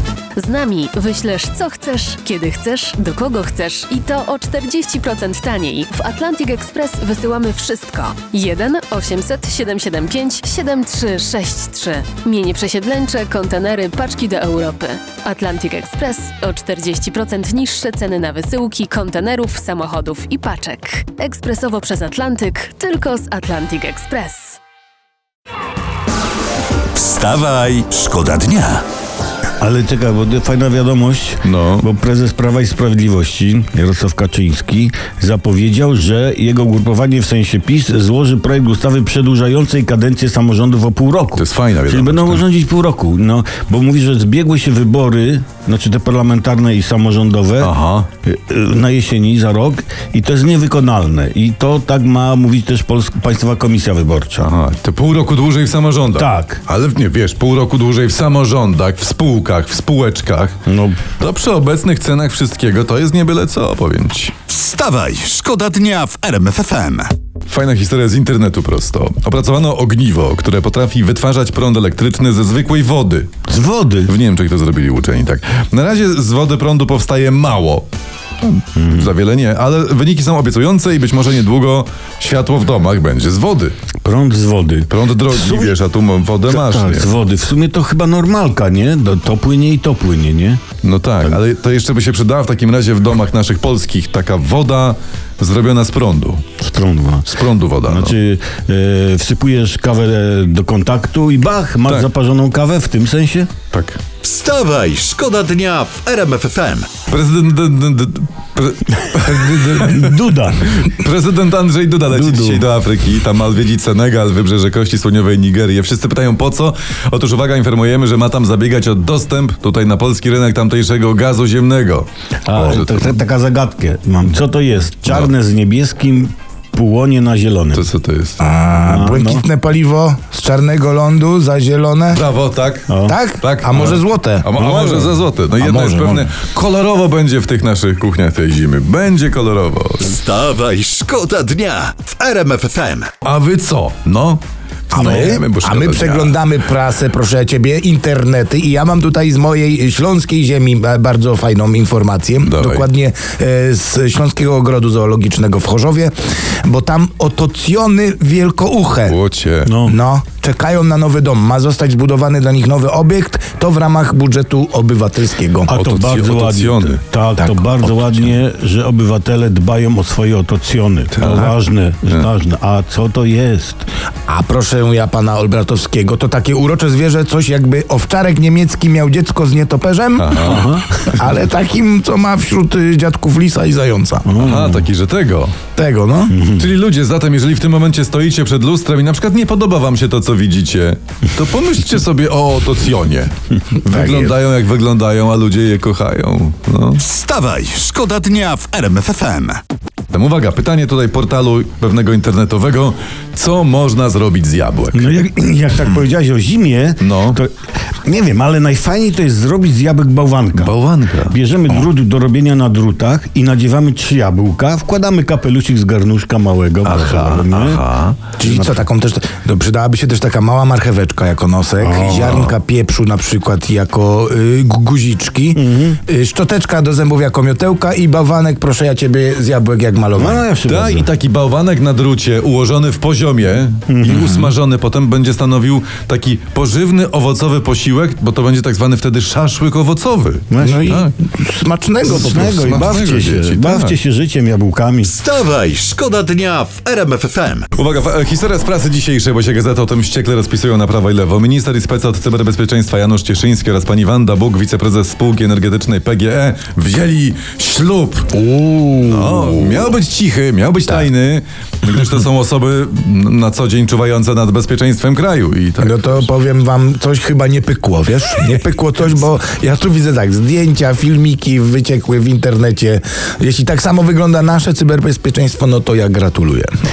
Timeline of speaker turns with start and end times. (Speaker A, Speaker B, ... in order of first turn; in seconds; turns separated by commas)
Speaker A: 0.3-24.6, Speaker B: 26.9-28.8, Speaker C: 29.6-54.5, Speaker D: 31.4-31.9, Speaker D: 41.4-42.4, Speaker D: 47.6-48.1, Speaker D: 54.4-60.5, Speaker C: 56.1-56.6, Speaker C: 60.7-61.1, Speaker D: 61.2-64.3, Speaker B: 64.5-67.1, Speaker D: 67.5-73.3, Speaker C: 73.5-74.1, Speaker D: 74.0-77.9, Speaker D: 78.4-83.7, Speaker C: 78.8-79.1, Speaker C: 84.0-85.8, Speaker D: 84.9-87.1, Speaker C: 86.4-90.6, Speaker D: 90.8-96.4, Speaker C: 96.6-97.3, Speaker D: 97.2-98.2, Speaker C: 97.8-103.5, Speaker D: 103.7-104.0, Speaker B: 104.2-107.0, Speaker D: 107.1-123.2, Speaker C: 109.7-110.8, Speaker C: 112.1-112.7, Speaker C: 122.5-127.8, Speaker D: 127.7-128.4, Speaker E: 128.4-132.2, Speaker C: 128.8-129.4, Speaker D: 132.1-140.1, Speaker C: 132.9-133.2, Speaker E: 133.1-136.3, Speaker B: 140.0-143.1, Speaker D: 143.2-146.3, Speaker E: 144.9-156.1, Speaker D: 152.4-152.8, Speaker E: 156.6-159.2, Speaker D: 159.1-159.7, Speaker C: 159.6-159.9, Speaker E: 159.8-165.7, Speaker C: 165.7-173.9, Speaker D: 165.8-167.0, Speaker E: 167.4-167.9, Speaker D: 171.2-171.5, Speaker E: 174.3-184.3, Speaker D: 180.2-181.1, Speaker C: 180.4-180.8, Speaker C: 184.2-184.8, Speaker D: 184.4-185.5, Speaker E: 185.8-186.4, Speaker C: 186.3-186.7, Speaker D: 186.6-197.0, Speaker E: 193.9-194.3, Speaker B: 197.0-199.6, Speaker D: 200.1-205.1, Speaker C: 204.9-207.5, Speaker D: 207.0-207.4, Speaker C: 208.0-210.7, Speaker D: 210.5-211.3, Speaker C: 211.2-217.8, Speaker D: 216.8-218.3, Speaker E: 218.4-230.4, Speaker C: 218.4-218.8, Speaker C: 221.8-222.5, Speaker C: 225.5-226.0, Speaker C: 230.1-231.1, Speaker D: 230.7-241.1, Speaker C: 233.9-234.5, Speaker C: 240.5-240.8, Speaker E: 240.6-242.7, Speaker C: 242.0-245.1, Speaker D: 242.2-243.9, Speaker B: 245.0-247.7, Speaker D: 247.7-258.4, Speaker E: 258.3-259.9, Speaker D: 259.0-266.3, Speaker E: 265.8-276.7